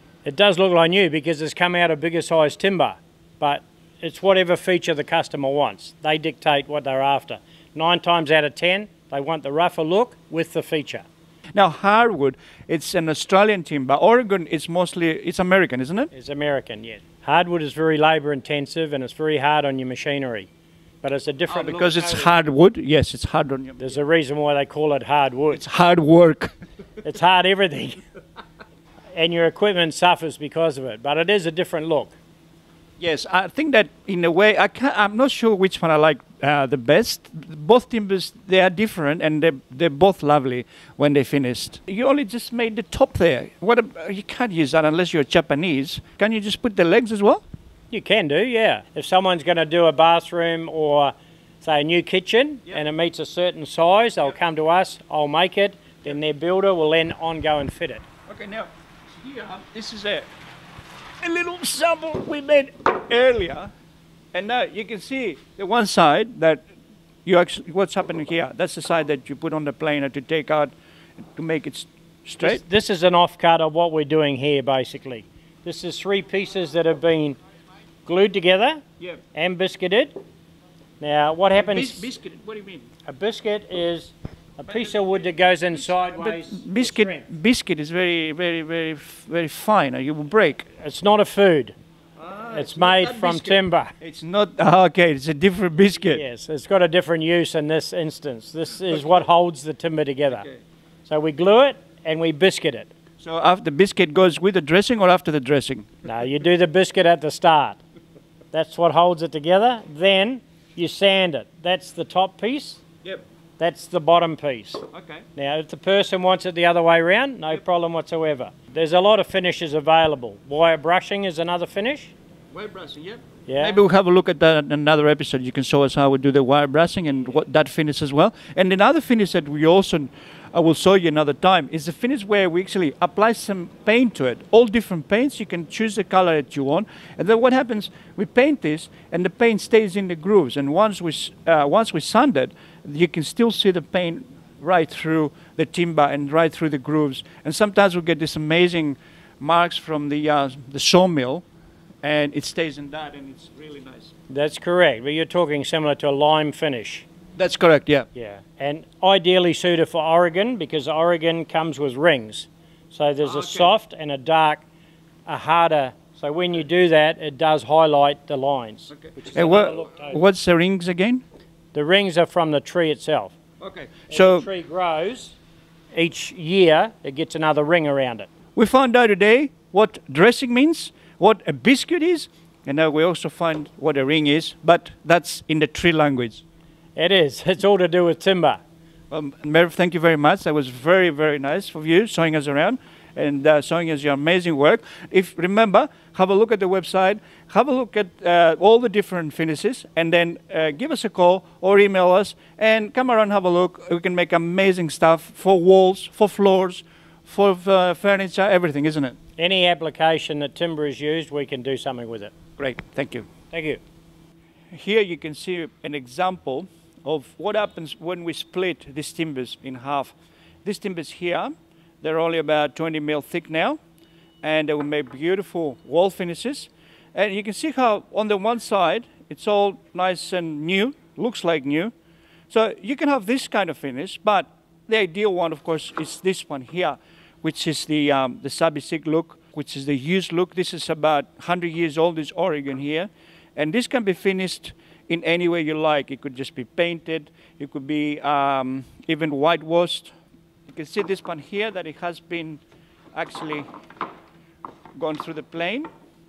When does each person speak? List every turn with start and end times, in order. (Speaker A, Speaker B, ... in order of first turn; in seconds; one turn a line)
Speaker A: 0.2-11.1
Speaker B: 11.6-16.1
Speaker A: 16.1-20.5
Speaker A: 21.0-22.3
Speaker B: 21.5-24.0
Speaker A: 23.8-25.6
Speaker B: 25.5-26.5
Speaker A: 27.0-28.0
Speaker A: 29.1-32.2
Speaker B: 33.0-47.4
Speaker A: 47.9-58.0
Speaker B: 58.3-60.3
Speaker B: 61.2-63.7
Speaker B: 64.3-66.7
Speaker B: 67.2-70.7
Speaker B: 71.3-72.6
Speaker A: 72.4-77.4
Speaker A: 78.1-80.2
Speaker A: 81.0-82.1
Speaker B: 81.5-82.9
Speaker A: 83.1-87.3
Speaker B: 85.8-90.7
Speaker A: 90.8-91.8
Speaker B: 92.2-96.2
Speaker A: 92.5-93.9
Speaker A: 96.1-100.5
Speaker B: 100.3-100.6
Speaker A: 101.1-102.9
Speaker B: 103.2-106.0
Speaker A: 106.0-107.8
Speaker A: 108.5-112.8
Speaker A: 113.6-122.1
Speaker B: 114.9-115.2
Speaker B: 122.5-151.4
Speaker A: 123.5-123.8
Speaker B: 152.0-154.1
Speaker A: 154.3-157.1
Speaker B: 157.4-158.1
Speaker A: 158.2-164.6
Speaker B: 163.2-163.7
Speaker A: 165.3-170.2
Speaker B: 168.9-171.2
Speaker A: 171.7-173.3
Speaker B: 173.6-174.5
Speaker A: 174.1-175.4
Speaker A: 175.9-178.3
Speaker B: 178.6-186.4
Speaker A: 187.0-188.6
Speaker B: 189.1-209.2
Speaker A: 209.4-212.3
Speaker B: 212.6-213.3
Speaker A: 213.5-213.8
Speaker B: 214.7-223.8
Speaker B: 224.4-231.9
Speaker B: 232.5-250.1
Speaker B: 250.7-252.6
Speaker B: 253.1-253.7
Speaker B: 254.9-255.9